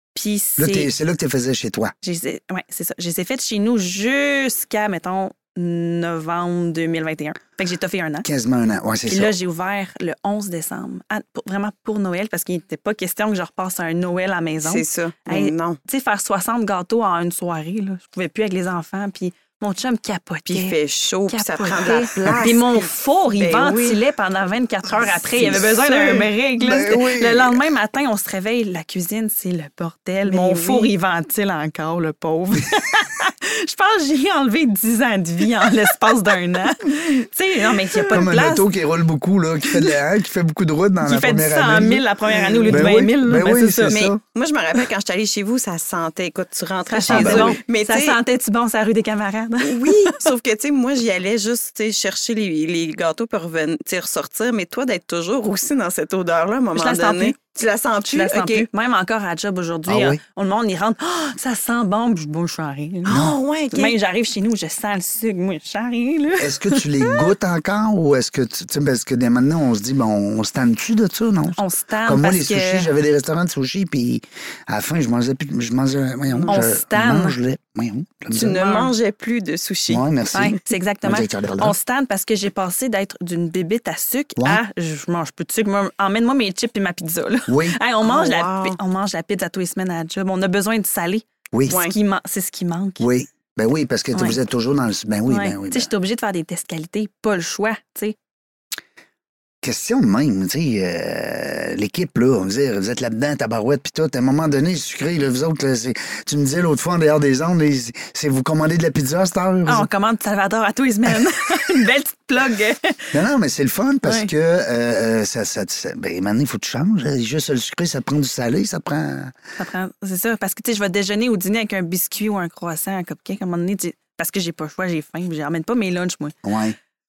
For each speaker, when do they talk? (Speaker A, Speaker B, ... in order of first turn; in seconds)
Speaker A: 0.1-0.9, 2.0-8.3, 9.1-20.8, 21.3-38.7, 41.0-44.0, 46.9-50.3, 56.8-57.4, 58.1-63.2, 63.7-67.3, 71.6-72.9, 76.5-77.4, 78.5-78.9, 80.3-93.1, 95.3-98.2, 109.7-113.2, 114.0-114.3, 119.6-126.3
Speaker B: 0.6-1.9, 8.2-9.3, 26.6-27.6, 38.1-42.0, 42.7-44.2, 47.1-47.6, 59.9-60.2, 63.1-63.4, 66.4-78.6, 79.9-81.8, 87.5-87.8, 91.5-91.8, 93.0-95.9, 99.6-109.9, 113.1-119.3, 126.4-126.8
Speaker C: 14.6-15.8, 20.5-24.0, 25.2-26.3, 30.3-30.9, 42.3-42.9, 43.9-48.2, 49.6-58.7, 63.0-64.0, 76.3-76.6, 78.3-80.0, 88.0-88.8, 91.7-92.0